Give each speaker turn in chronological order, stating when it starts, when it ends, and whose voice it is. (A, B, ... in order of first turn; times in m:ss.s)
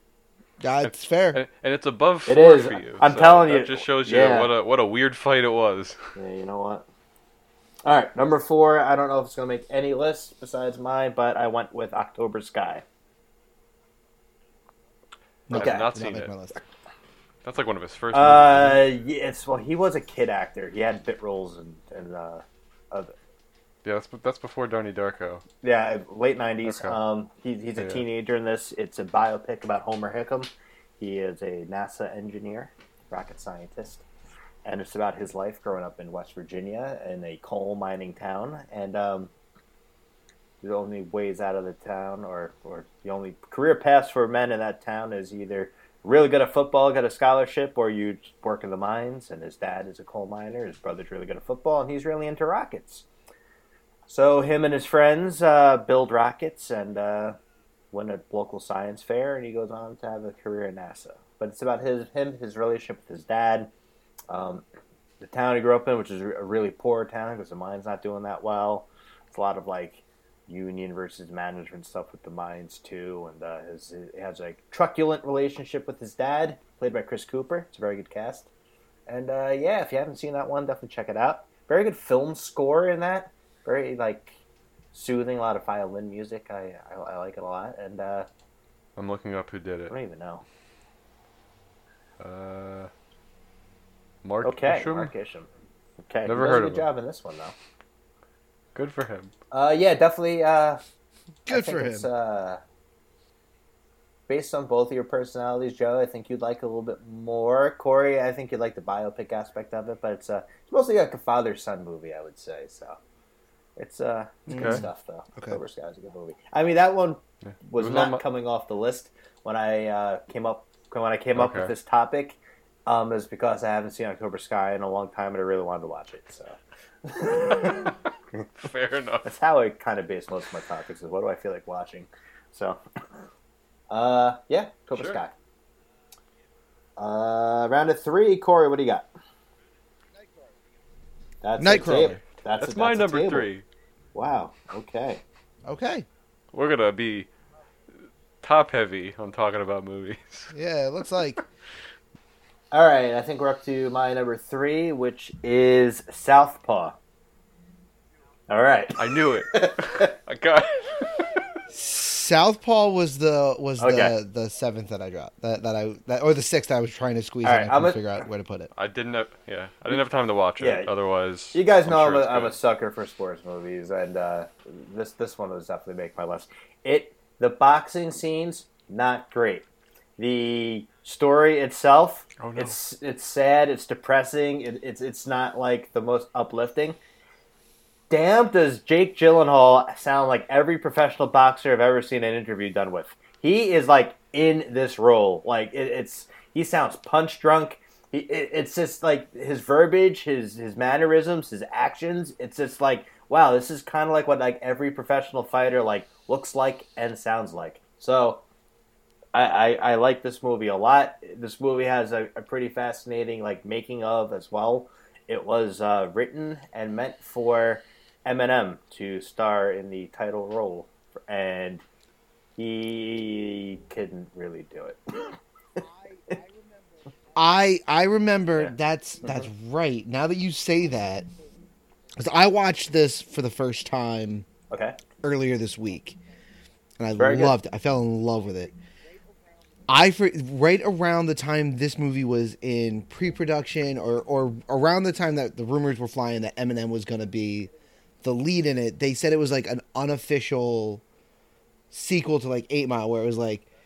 0:00.6-0:01.4 A
0:00.8-0:06.1 B
0:02.3-0:04.5 C
0:06.2-0:06.8 C
0:07.8-0:12.8 C
0:15.5-0:16.6 A
0:15.5-0:16.3 B
0:15.5-0:16.0 C
0:17.4-0:18.8 B
0:18.1-0:23.1 C
0:23.8-0:25.4 B
0:25.6-0:34.1 C
0:26.6-0:27.0 B
0:34.6-0:39.3 C
0:40.6-0:53.1 C
0:54.1-0:57.4 C
0:57.9-1:03.7 C
1:04.3-1:04.6 C
1:05.2-1:18.5 C
1:19.1-1:24.4 C
1:24.9-1:28.3 C
1:29.0-1:29.9 B
1:29.9-1:30.4 C
1:32.2-1:32.9 B
1:34.2-1:35.1 B
1:34.4-1:35.5 C
1:36.1-1:37.5 C
1:36.2-1:36.9 B
1:38.7-1:39.3 B
1:39.5-1:40.8 C
1:41.4-1:42.1 A
1:41.5-1:42.6 C
1:44.3-1:53.0 C
1:53.8-2:08.4 C
1:54.5-1:54.9 A
1:54.5-1:54.8 B
1:57.5-1:58.2 B
2:01.4-2:01.7 B
2:07.4-2:07.9 B
2:08.6-2:09.3 B
2:09.2-2:12.8 C
2:13.9-2:15.3 C
2:17.0-2:19.1 C
2:21.4-2:23.5 C
2:21.6-2:22.2 A
2:22.6-2:23.6 B
2:24.1-2:25.2 C
2:25.6-2:26.1 A
2:26.5-2:27.3 B
2:28.4-2:30.5 B
2:30.5-2:31.4 A
2:32.7-2:37.0 C
2:38.5-2:40.1 C
2:39.0-2:41.4 B
2:41.7-2:48.7 A
2:43.8-2:44.1 C
2:47.4-2:48.0 C
2:48.7-2:52.6 B
2:50.6-2:50.9 C
2:51.5-2:59.6 C
3:00.2-3:07.0 C
3:02.4-3:02.7 B
3:08.1-3:28.4 C
3:29.3-3:41.8 C
3:42.6-3:45.4 C
3:47.4-3:51.3 A
3:52.2-3:54.5 A
3:54.7-3:55.0 C
3:55.2-3:56.2 A
3:57.0-3:58.7 A
3:57.2-3:57.5 C
3:59.9-4:07.7 A
4:08.2-4:11.0 A
4:11.9-4:13.7 A